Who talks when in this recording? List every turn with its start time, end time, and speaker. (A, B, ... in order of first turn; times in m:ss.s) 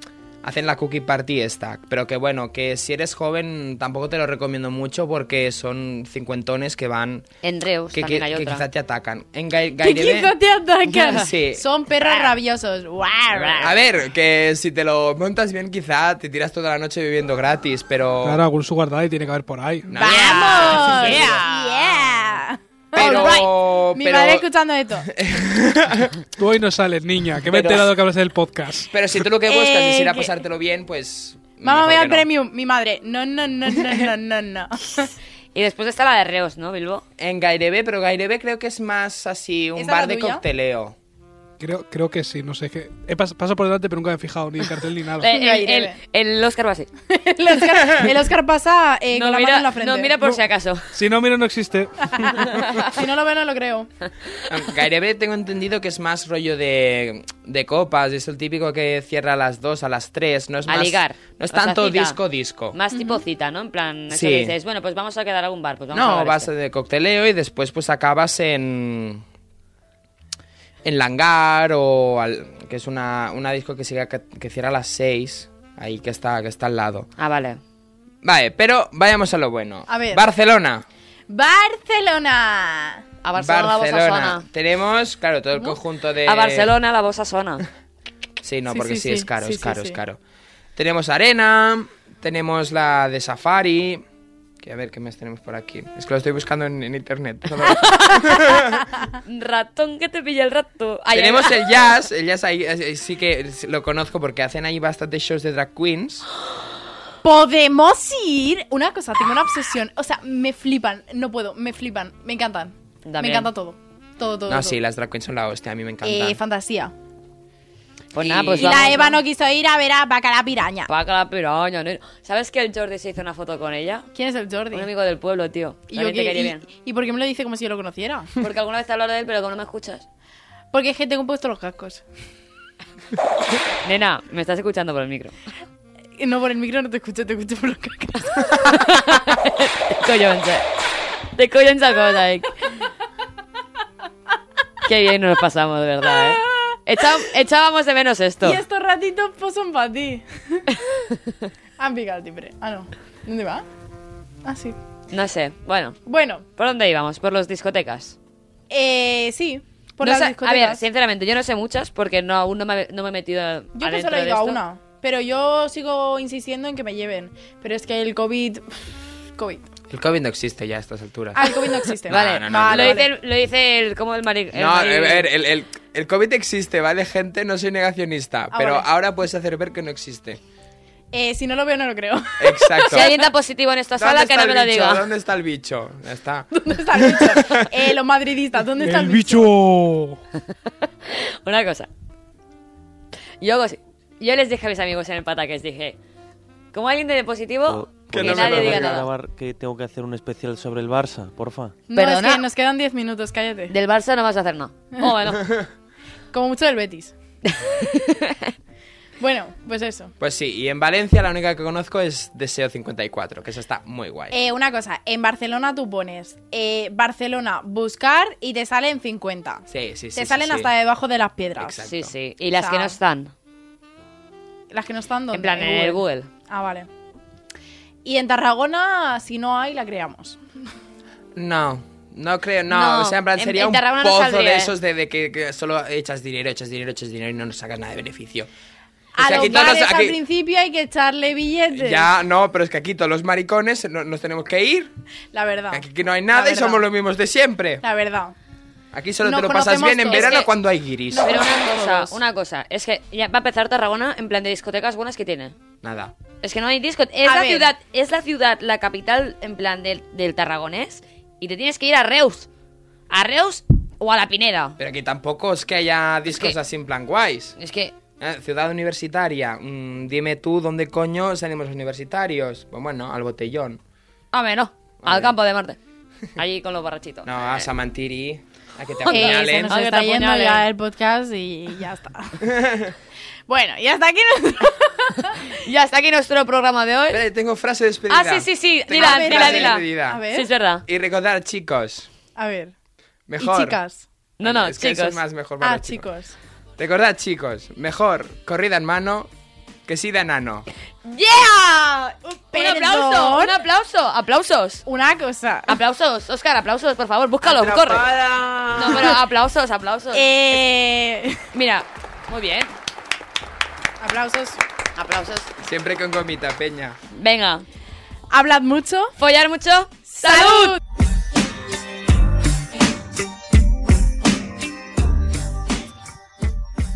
0:00.4-0:07.3 A
0:07.4-0:08.6 B
0:07.9-0:10.3 A
0:09.8-0:13.7 C
0:11.0-0:11.6 A
0:12.0-0:12.3 B
0:13.3-0:13.7 B
0:13.6-0:18.4 A
0:18.2-0:19.9 D
0:19.9-0:21.4 A
0:20.0-0:25.1 C
0:20.0-0:22.3 B
0:22.9-0:24.5 A
0:23.0-0:23.4 B
0:25.0-0:26.2 A
0:26.4-0:28.9 D
0:27.5-0:27.9 A
0:28.9-0:32.3 A
0:29.5-0:30.4 C
0:31.6-0:35.1 C
0:35.5-0:37.0 B
0:37.2-0:41.0 A
0:39.8-0:40.4 C
0:41.6-0:45.3 D
0:45.2-0:46.9 B
0:45.2-0:46.0 C
0:47.1-0:50.1 C
0:49.1-0:50.9 B
0:50.9-0:52.6 D
0:52.0-0:53.9 C
0:54.5-1:02.8 A
1:00.7-1:02.2 B
1:02.7-1:06.5 B
1:02.9-1:03.2 C
1:04.1-1:04.5 A
1:05.9-1:09.2 A
1:10.8-1:17.1 A
1:17.2-1:17.6 B
1:18.2-1:20.8 A
1:19.9-1:20.3 C
1:21.3-1:23.0 C
1:23.2-1:24.4 B
1:23.4-1:26.7 A
1:26.2-1:27.6 B
1:28.4-1:30.2 A
1:28.7-1:30.0 C
1:30.8-1:34.0 A
1:34.6-1:38.8 A
1:37.9-1:38.6 B
1:39.2-1:41.8 B
1:41.1-1:46.3 A
1:47.2-1:54.8 C
1:53.0-1:53.5 B
1:54.5-1:56.4 A
1:56.0-1:56.9 C
1:58.1-1:59.2 B
1:58.2-1:58.9 A
1:58.6-2:00.9 C
2:00.9-2:04.1 B
2:04.1-2:04.9 C
2:04.7-2:06.6 B
2:05.9-2:08.3 C
2:08.4-2:10.0 B
2:10.7-2:12.0 C
2:13.8-2:15.3 B
2:16.2-2:18.8 C
2:18.6-2:20.6 B
2:21.3-2:22.8 B
2:24.8-2:28.6 B
2:28.4-2:30.7 C
2:31.8-2:33.6 C
2:34.4-2:34.8 C
2:35.1-2:36.0 B
2:36.0-2:36.4 C
2:36.6-2:38.2 B
2:38.7-2:40.8 C
2:40.0-2:44.6 B
2:43.7-2:49.7 C
2:49.9-2:53.0 A
2:51.3-2:53.1 C
2:52.1-2:55.3 B
2:54.5-3:00.4 A
2:58.5-2:58.9 C
3:01.1-3:03.1 C
3:02.4-3:03.1 A
3:02.9-3:05.0 B
3:04.0-3:07.7 A
3:06.5-3:09.5 C
3:08.8-3:10.2 D
3:11.0-3:11.9 B
3:13.4-3:16.0 B
3:16.7-3:19.1 B
3:17.7-3:21.8 E
3:18.1-3:19.0 A
3:21.9-3:22.4 B
3:21.9-3:23.7 C
3:23.7-3:25.6 B
3:26.3-3:27.1 C
3:27.4-3:28.5 B
3:29.2-3:30.1 C
3:30.2-3:34.4 A
3:34.3-3:41.8 C
3:39.7-3:40.7 A
3:41.6-3:42.1 A
3:41.9-3:43.3 B
3:42.6-3:43.0 C
3:44.7-3:46.9 C
3:45.3-3:46.3 B
3:48.0-3:50.4 C
3:51.4-3:58.5 A
3:52.7-3:54.7 B
3:59.1-4:02.1 C
3:59.2-4:00.2 A
4:01.7-4:04.9 A
4:05.3-4:06.8 C
4:05.7-4:07.8 A
4:07.8-4:08.3 C
4:08.9-4:11.4 A
4:09.2-4:10.4 C
4:10.1-4:10.5 B
4:11.1-4:12.2 C
4:11.2-4:15.6 B
4:15.8-4:16.1 A
4:16.4-4:22.5 B
4:17.2-4:17.7 C
4:23.1-4:24.8 B
4:24.8-4:27.6 A
4:27.6-4:27.9 B
4:28.2-4:33.8 A
4:34.3-4:35.8 B
4:35.0-4:35.3 A
4:36.4-4:37.7 B
4:37.2-4:39.8 A
4:39.1-4:40.6 B
4:39.1-4:42.4 C
4:42.4-4:42.9 A
4:43.5-4:45.5 C
4:45.4-4:47.2 B
4:47.1-4:50.2 A
4:48.1-4:50.8 B
4:49.0-4:50.5 C
4:50.8-4:52.1 A
4:52.4-4:52.7 C
4:53.3-4:53.8 A
4:53.4-4:54.0 C
4:54.4-4:55.2 B
4:54.4-4:56.1 A
4:55.6-4:56.4 C
4:56.8-4:59.3 A
4:59.9-5:00.6 A
5:01.1-5:02.0 B
5:01.9-5:03.6 C
5:02.5-5:04.8 B
5:04.8-5:05.8 C
5:05.7-5:08.1 B
5:07.4-5:09.2 A
5:08.7-5:10.4 B
5:10.1-5:11.5 C
5:11.5-5:12.7 B
5:14.0-5:14.6 C
5:15.0-5:15.5 B
5:15.6-5:17.0 A
5:17.1-5:17.6 B
5:18.3-5:19.2 C
5:19.2-5:20.8 B
5:20.1-5:20.8 C